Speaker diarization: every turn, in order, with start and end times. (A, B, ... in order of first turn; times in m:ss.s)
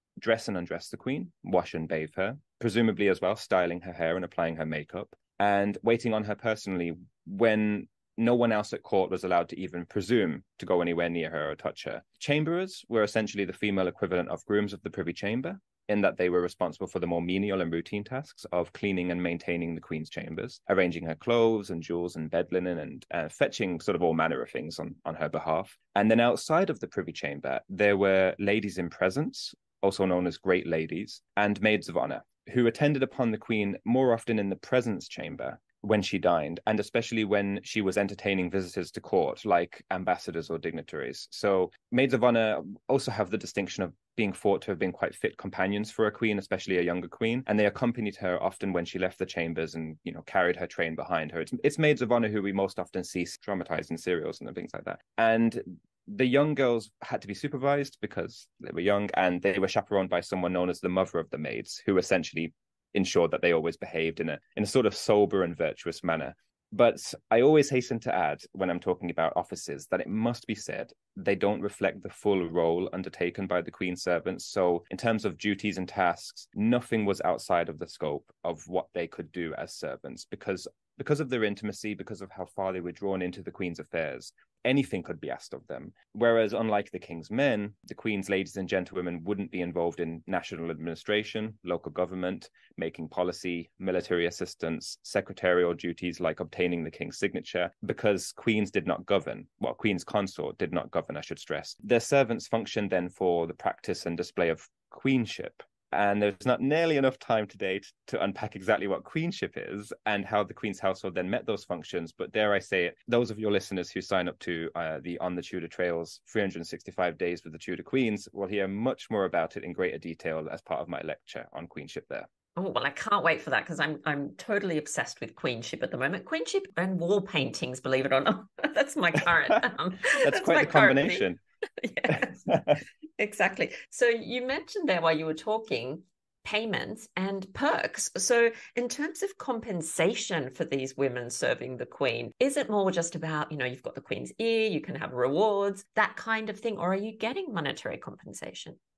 0:00.2-2:02.3 A
2:02.6-2:11.3 B
2:10.0-2:11.4 A
2:11.8-2:12.5 B
2:12.1-2:12.8 A
2:13.2-2:28.8 B